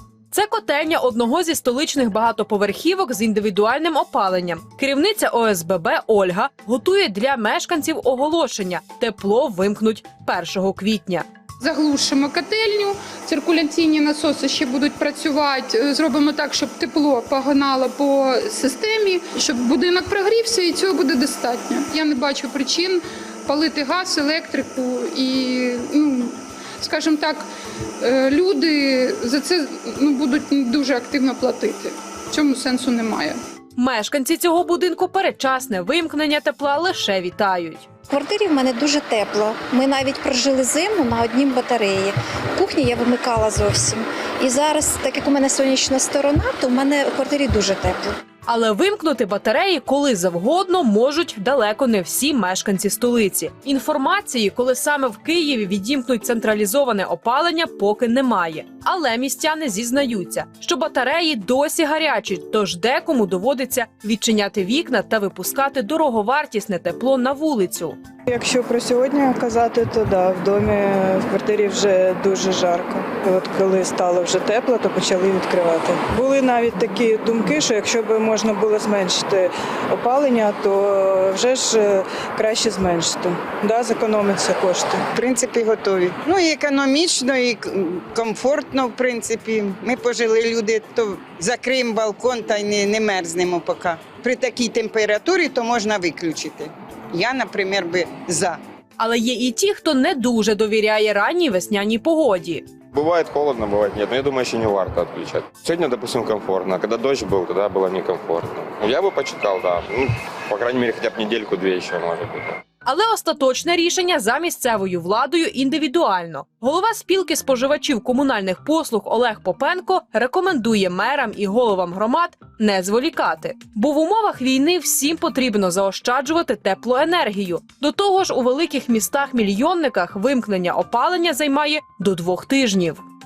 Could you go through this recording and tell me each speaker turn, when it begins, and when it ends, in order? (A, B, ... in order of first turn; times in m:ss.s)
0:00.3-0:11.2 A
0:11.6-0:27.5 B
0:28.0-0:33.4 B
0:33.8-0:37.9 A
0:38.1-0:48.2 C
0:48.5-1:08.0 A
1:08.3-1:25.0 D
1:25.1-1:38.6 E
1:39.0-1:42.7 A
1:42.9-1:52.6 F
1:52.8-2:13.0 A